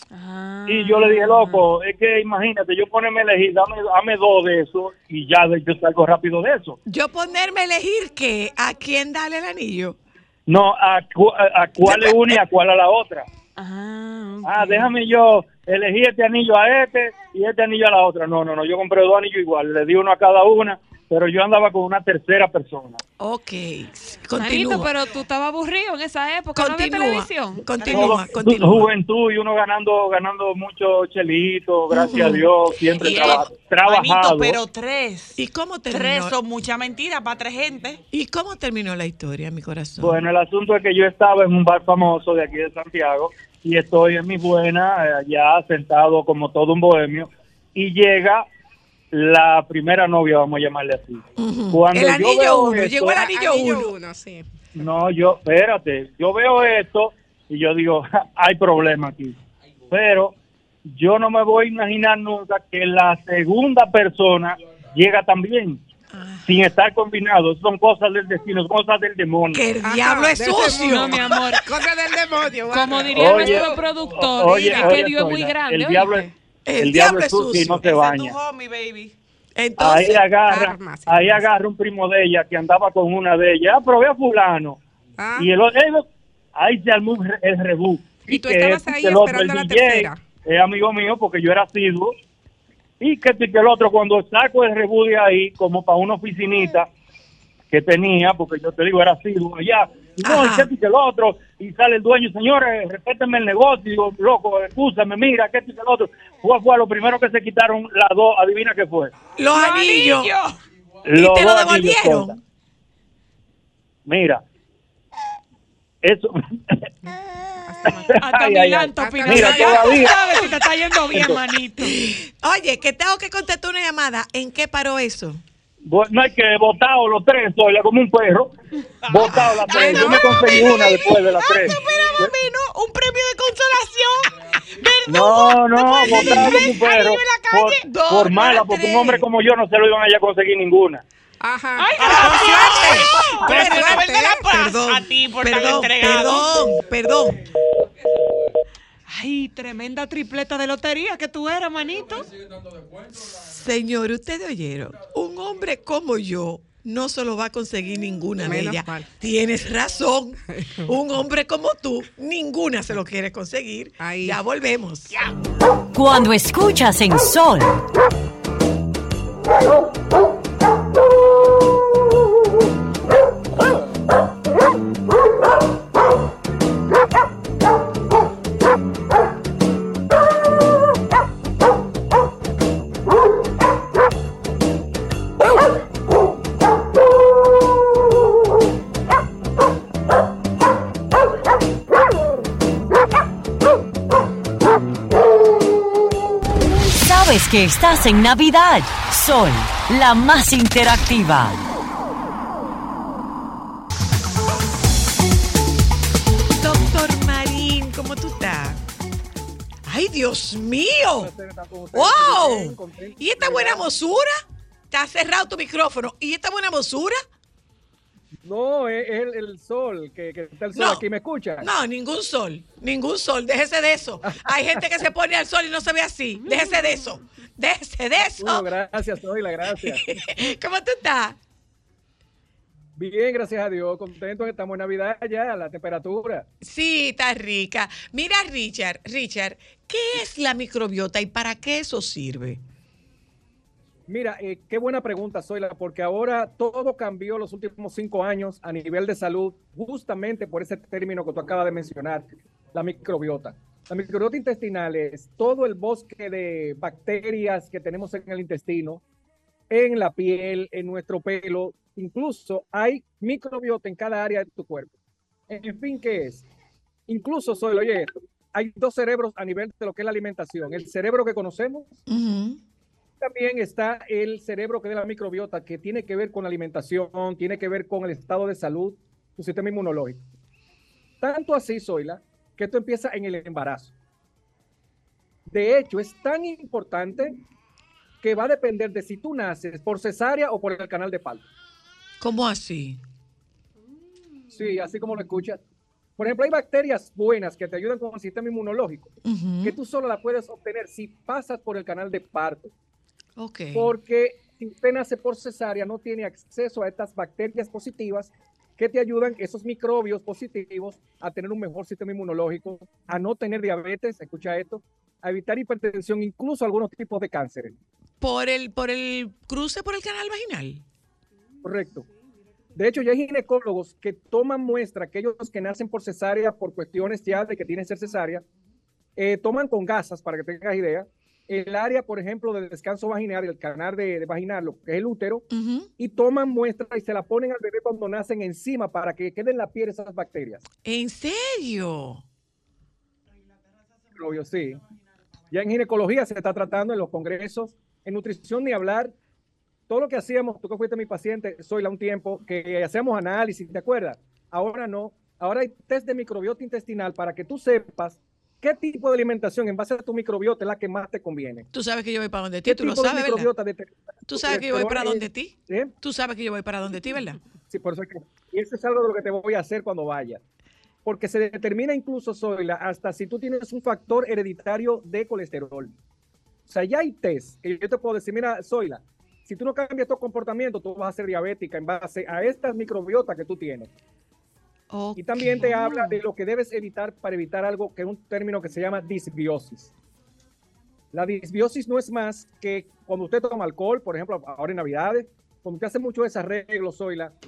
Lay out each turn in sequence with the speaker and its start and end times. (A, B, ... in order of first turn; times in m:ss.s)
0:00.1-0:01.7 A
0:00.7-0:06.8 B
0:06.8-0:10.0 C
0:10.5-0:13.3 B
0:11.8-0:12.4 C
0:13.6-0:14.9 A
0:14.4-0:23.0 B
0:23.2-0:25.0 C
0:24.4-0:28.3 A
0:26.6-0:28.9 C
0:27.9-0:34.6 B
0:31.9-0:33.5 C
0:33.8-0:35.4 D
0:35.4-0:36.4 C
0:35.9-0:38.0 D
0:38.1-0:40.2 C
0:40.0-0:48.4 B
0:49.1-0:53.2 B
0:51.4-0:53.9 C
0:52.9-0:54.5 E
0:54.8-0:59.4 B
0:59.9-1:00.3 B
1:00.9-1:05.8 B
1:06.1-1:06.6 C
1:06.5-1:09.6 B
1:09.5-1:11.6 C
1:09.8-1:13.7 E
1:10.7-1:11.6 A
1:12.7-1:16.3 A
1:13.2-1:18.4 B
1:16.7-1:17.9 C
1:17.8-1:19.2 D
1:19.6-1:20.3 C
1:19.8-1:24.8 B
1:20.5-1:21.5 E
1:25.2-1:25.5 E
1:25.4-1:32.2 B
1:28.2-1:30.2 E
1:33.0-1:36.9 B
1:37.7-1:49.1 B
1:40.2-1:40.7 C
1:49.4-1:50.4 C
1:49.5-1:50.5 A
1:51.1-1:52.4 B
1:51.2-1:52.4 C
1:54.1-1:54.4 B
1:56.0-1:56.8 B
1:57.1-1:58.0 E
1:57.9-2:00.3 B
1:57.9-2:02.0 A
1:59.0-1:59.6 E
1:59.7-2:00.0 C
2:01.1-2:01.4 B
2:01.8-2:05.4 C
2:05.9-2:08.5 B
2:09.1-2:12.3 B
2:09.1-2:14.3 D
2:09.2-2:10.8 C
2:09.7-2:10.2 A
2:09.9-2:10.3 E
2:14.8-2:15.7 D
2:15.1-2:21.0 B
2:15.1-2:19.3 C
2:16.7-2:17.5 D
2:21.4-2:22.0 E
2:21.8-2:24.0 A
2:22.0-2:27.4 C
2:22.0-2:26.8 D
2:23.6-2:24.4 E
2:29.1-2:32.3 A
2:33.4-2:45.2 C
2:38.4-2:39.1 E
2:40.6-2:40.8 E
2:44.0-2:44.4 E
2:45.9-2:47.8 F
3:16.9-3:21.7 F
3:26.6-3:28.8 C
3:29.9-3:31.3 C
3:31.2-3:33.9 G
3:31.9-3:37.2 C
3:38.4-3:41.7 G
3:40.8-3:41.0 C
3:41.6-3:48.6 C
3:44.3-3:44.9 G
3:46.4-3:46.8 A
3:48.4-3:50.0 G
3:49.7-3:51.4 C
3:53.0-3:56.5 G
3:56.6-4:02.6 C
4:04.1-4:19.0 G
4:19.7-4:24.9 G
4:25.5-4:26.4 G
4:27.1-4:32.0 G
4:32.1-4:32.6 C
4:33.2-4:40.2 G
4:41.2-4:43.9 G
4:45.5-4:47.4 G
4:48.2-4:51.4 G
4:52.2-4:53.0 C
4:54.5-4:55.6 G
4:56.2-4:59.1 G
4:59.2-4:59.8 C
4:59.6-5:02.7 G
5:03.4-5:03.9 C
5:03.8-5:17.7 G
5:18.2-5:20.8 C
5:21.6-5:22.0 G
5:22.8-5:28.4 G
5:29.2-5:35.4 G
5:35.5-5:35.9 C
5:36.0-5:40.6 G
5:40.8-5:42.2 C
5:44.2-5:44.8 G
5:45.5-5:49.1 G
5:49.9-6:01.7 G
6:01.7-6:03.5 C
6:02.6-6:05.9 G
6:04.3-6:07.4 C
6:07.7-6:10.4 G
6:11.0-6:15.9 G
6:16.7-6:23.9 G
6:24.9-6:26.1 C
6:25.2-6:29.9 G
6:31.1-6:37.3 G